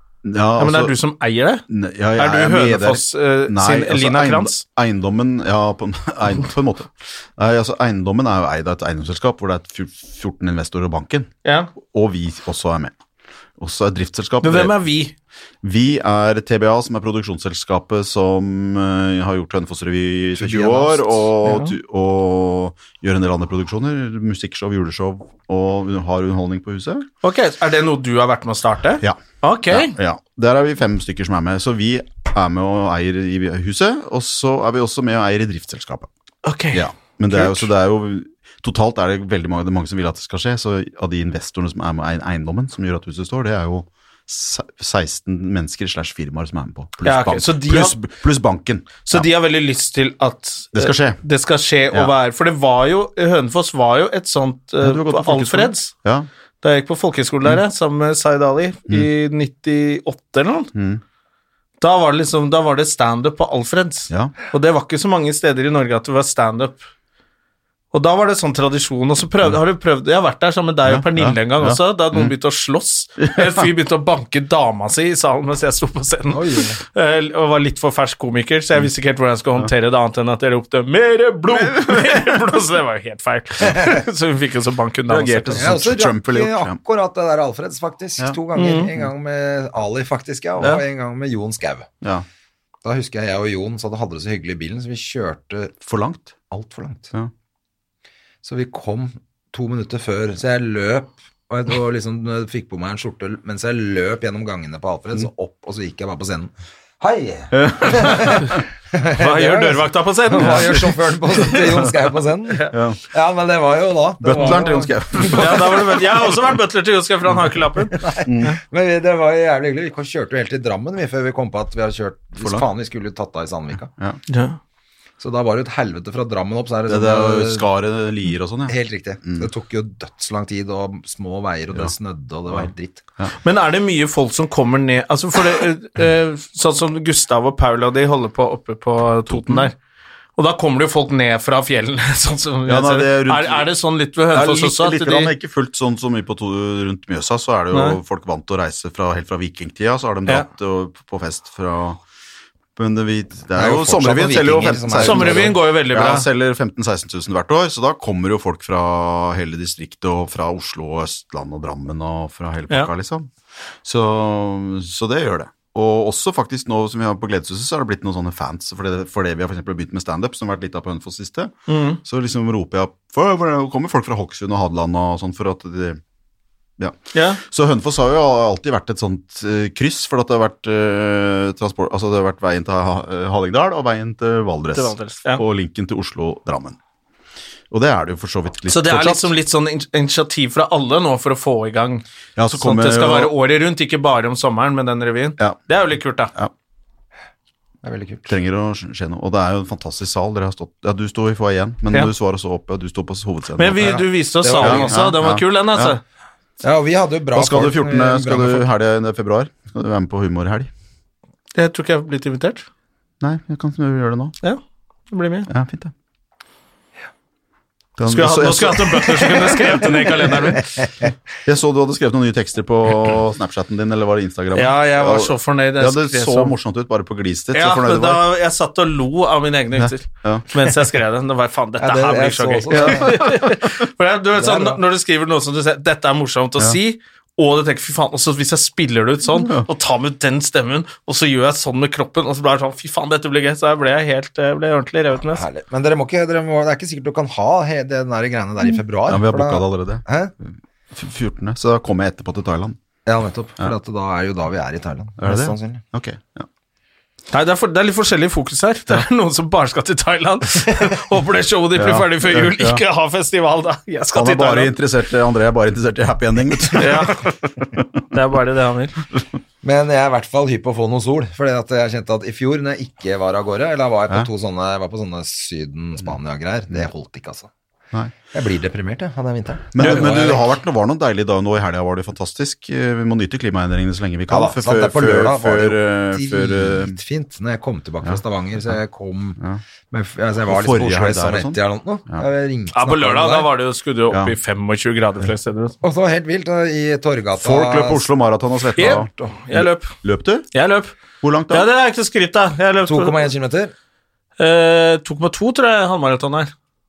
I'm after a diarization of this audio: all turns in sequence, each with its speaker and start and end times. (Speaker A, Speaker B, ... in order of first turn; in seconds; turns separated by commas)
Speaker A: 0.2-0.9, Speaker B: 0.6-1.6, Speaker A: 1.7-12.9, Speaker B: 2.2-4.6, Speaker B: 11.4-11.7, Speaker A: 13.6-14.8, Speaker B: 14.4-15.1, Speaker A: 15.6-27.1, Speaker C: 20.4-20.9, Speaker B: 21.4-21.7, Speaker B: 27.2-29.9, Speaker A: 29.7-36.1, Speaker B: 36.4-37.7, Speaker A: 36.7-49.3, Speaker B: 47.0-48.0, Speaker B: 49.0-55.9, Speaker A: 50.7-51.2, Speaker A: 54.8-56.3, Speaker B: 56.6-60.7, Speaker A: 60.7-61.0, Speaker B: 61.8-66.8, Speaker B: 67.9-85.7, Speaker A: 70.8-72.3, Speaker A: 73.2-73.6, Speaker C: 76.3-76.8, Speaker A: 81.5-82.4, Speaker A: 85.1-86.8, Speaker C: 85.6-91.9, Speaker B: 88.5-88.9, Speaker C: 92.8-95.7, Speaker A: 95.8-96.3, Speaker C: 96.5-97.1, Speaker C: 98.4-115.4, Speaker A: 107.5-108.5, Speaker B: 109.2-111.6, Speaker A: 112.7-113.0, Speaker A: 114.2-116.0, Speaker B: 115.2-118.5, Speaker C: 117.9-123.9, Speaker A: 118.2-118.5, Speaker A: 122.4-122.7, Speaker B: 124.3-124.6, Speaker C: 125.2-127.7, Speaker A: 126.9-129.5, Speaker C: 128.7-133.0, Speaker B: 133.4-139.7, Speaker A: 139.3-139.7, Speaker B: 140.4-145.3, Speaker A: 142.7-143.7, Speaker A: 144.3-152.0, Speaker B: 147.7-148.0, Speaker A: 152.8-163.3, Speaker C: 153.5-155.6, Speaker B: 155.0-156.2, Speaker A: 163.8-176.0, Speaker B: 171.7-172.0, Speaker A: 176.8-186.8, Speaker B: 177.1-177.4, Speaker B: 184.7-185.4, Speaker A: 187.7-189.3, Speaker B: 188.7-192.0, Speaker A: 192.3-193.3, Speaker B: 192.6-196.3, Speaker C: 197.8-198.3, Speaker A: 198.3-204.0, Speaker B: 203.6-206.0, Speaker C: 203.8-205.0, Speaker A: 204.6-205.9, Speaker C: 206.6-208.7, Speaker A: 207.3-210.7, Speaker B: 211.5-212.7, Speaker A: 213.2-214.3, Speaker B: 214.4-215.5, Speaker A: 215.5-215.9, Speaker A: 218.0-220.3, Speaker B: 218.1-220.7, Speaker C: 220.8-221.1, Speaker A: 221.4-228.2, Speaker B: 224.5-226.5, Speaker B: 227.5-245.4, Speaker A: 229.8-230.5, Speaker C: 231.8-233.2, Speaker A: 232.7-233.5, Speaker C: 234.3-234.8, Speaker A: 239.3-239.7, Speaker C: 245.3-250.3, Speaker A: 249.1-252.8, Speaker C: 253.1-255.8, Speaker A: 255.2-256.5, Speaker B: 257.3-264.7, Speaker A: 261.8-262.8, Speaker A: 264.1-267.9, Speaker B: 266.7-267.3, Speaker B: 268.1-268.9, Speaker C: 269.6-277.5, Speaker C: 278.3-280.5, Speaker A: 279.7-287.0, Speaker C: 284.3-289.4, Speaker C: 289.9-293.5, Speaker A: 290.4-292.2, Speaker B: 292.7-295.7, Speaker C: 295.8-298.1, Speaker A: 297.4-300.5, Speaker B: 298.8-299.9, Speaker B: 300.5-300.9, Speaker A: 301.2-301.7, Speaker B: 301.5-303.2, Speaker C: 302.8-303.7, Speaker B: 304.4-306.5